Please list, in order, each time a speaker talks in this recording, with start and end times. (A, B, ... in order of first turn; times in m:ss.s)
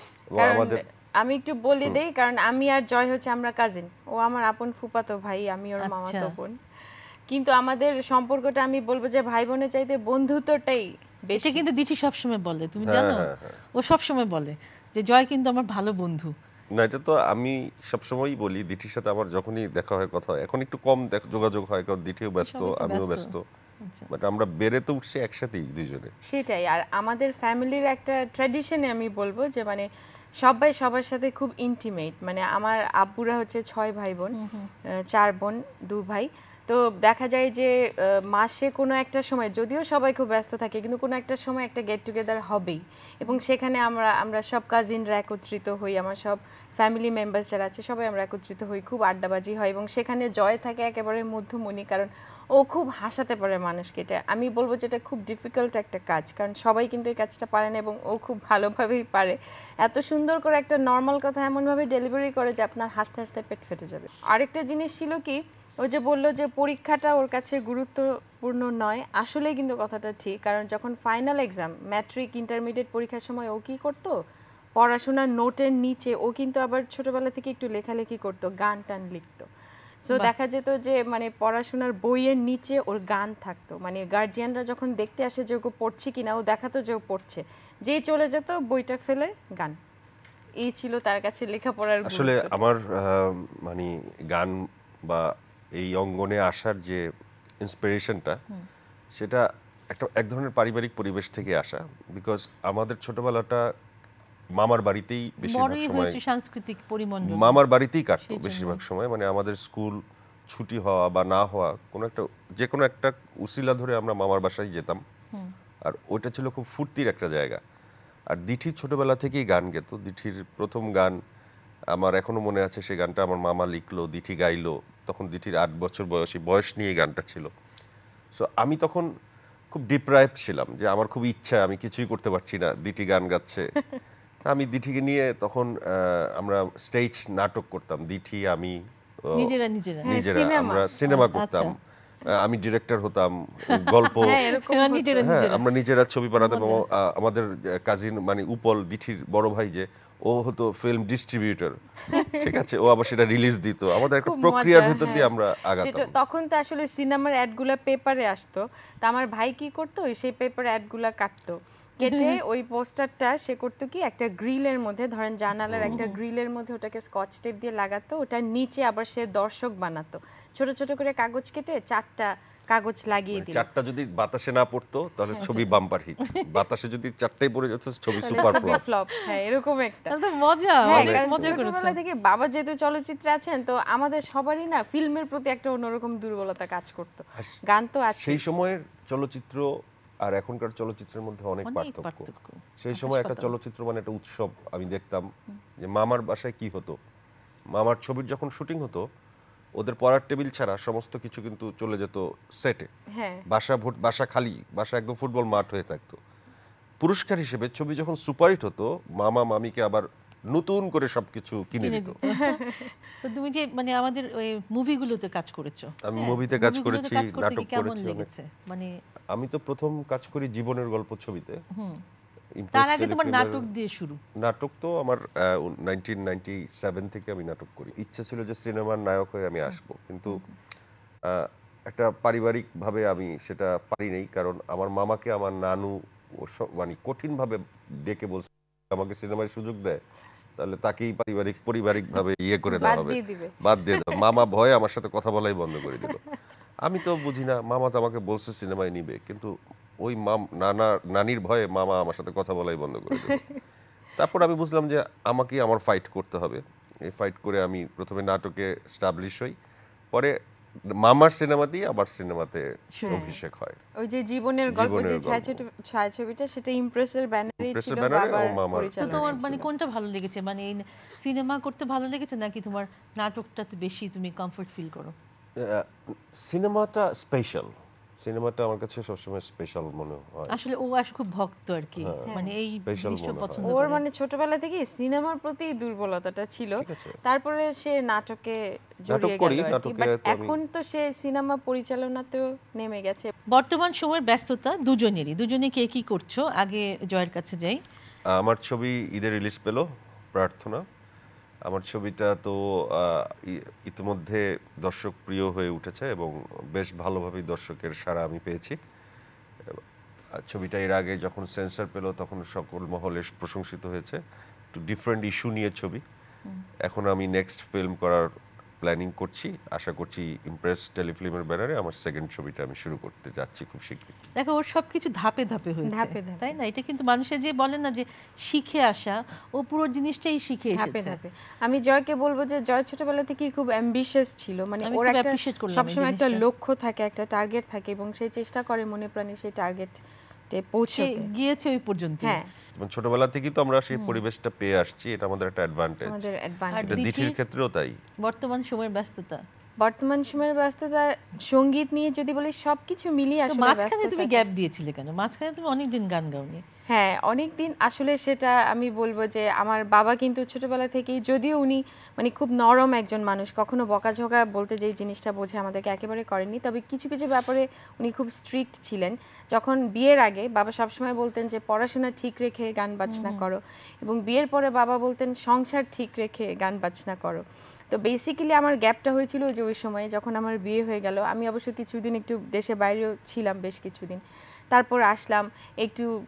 0:00.3-0:00.8 A
0:00.4-0:06.6 B
0:05.8-0:06.3 C
0:07.3-0:11.6 B
0:11.4-0:16.3 C
0:12.8-0:13.6 A
0:16.8-0:23.4 A
0:22.4-0:23.3 C
0:23.8-0:24.1 C
0:24.1-0:26.1 A
0:26.2-0:29.9 B
0:30.4-0:34.3 B
0:34.3-0:34.7 C
0:35.1-1:14.1 B
1:14.8-1:19.5 B
1:20.1-1:29.8 B
1:30.6-1:32.5 B
1:32.0-1:37.0 A
1:37.6-1:38.4 A
1:39.2-1:43.6 A
1:44.6-1:46.2 A
1:45.4-1:47.6 C
1:47.2-1:55.0 A
1:48.2-1:48.8 C
1:55.9-1:57.6 A
1:58.3-2:01.2 A
2:01.9-2:07.5 A
2:08.3-2:09.1 A
2:09.7-2:13.7 A
2:14.4-2:19.5 A
2:19.3-2:20.2 C
2:20.0-2:20.9 B
2:20.0-2:21.7 A
2:21.1-2:21.7 C
2:22.4-2:24.4 A
2:23.7-2:25.6 C
2:24.1-2:25.3 B
2:25.2-2:31.8 A
2:26.4-2:26.8 C
2:32.1-2:32.5 B
2:32.3-2:36.1 A
2:34.2-2:53.7 B
2:42.1-2:42.3 C
2:45.7-2:46.1 A
2:45.8-2:46.1 C
2:53.3-2:58.8 A
2:55.4-2:56.4 C
2:58.2-2:58.8 C
2:58.3-3:00.1 B
3:00.1-3:02.0 C
3:00.8-3:08.4 B
3:00.8-3:01.6 A
3:08.1-3:09.7 A
3:10.2-3:15.3 A
3:11.6-3:13.5 C
3:15.8-3:17.0 A
3:17.7-3:19.0 A
3:19.8-3:22.9 A
3:23.2-3:23.4 B
3:23.5-3:26.2 A
3:27.0-3:32.2 A
3:31.8-3:32.6 C
3:32.2-3:32.9 B
3:33.2-3:38.9 C
3:36.0-3:38.3 A
3:39.3-3:41.6 A
3:41.7-3:42.0 C
3:42.6-3:43.7 A
3:42.7-3:44.2 C
3:44.4-3:50.4 A
3:49.7-3:50.5 C
3:51.3-4:00.0 A
4:00.6-4:06.2 A
4:02.7-4:04.2 B
4:05.9-4:06.3 B
4:06.8-4:09.5 A
4:10.0-4:13.4 A
4:13.2-4:13.5 B
4:14.2-4:19.5 A
4:21.0-4:23.8 A
4:23.0-4:23.3 C
4:23.0-4:23.4 B
4:24.0-4:29.6 B
4:24.7-4:25.6 A
4:27.6-4:29.6 A
4:29.0-4:35.1 C
4:35.6-4:40.6 A
4:40.5-4:44.0 C
4:42.0-4:43.7 A
4:42.2-4:42.5 B
4:43.6-4:53.3 B
4:46.8-4:47.2 A
4:49.1-4:50.6 A
4:53.5-4:57.8 C
4:58.4-5:00.8 A
5:01.7-5:08.8 A
5:10.4-5:14.2 A
5:14.7-5:16.0 A
5:16.8-5:18.3 A
5:18.8-5:24.2 A
5:24.4-5:31.2 C
5:25.8-5:26.6 B
5:30.7-5:40.0 B
5:34.8-5:36.4 C
5:40.5-5:41.3 B
5:40.9-5:42.4 C
5:42.2-5:42.5 B
5:42.8-5:46.3 A
5:43.9-5:44.2 C
5:46.0-5:47.1 B
5:46.7-5:47.4 C
5:46.8-5:48.0 A
5:48.2-5:49.4 C
5:49.8-5:54.4 B
5:53.5-5:56.6 C
5:56.9-6:24.2 B
6:13.1-6:13.4 C
6:24.7-6:26.1 B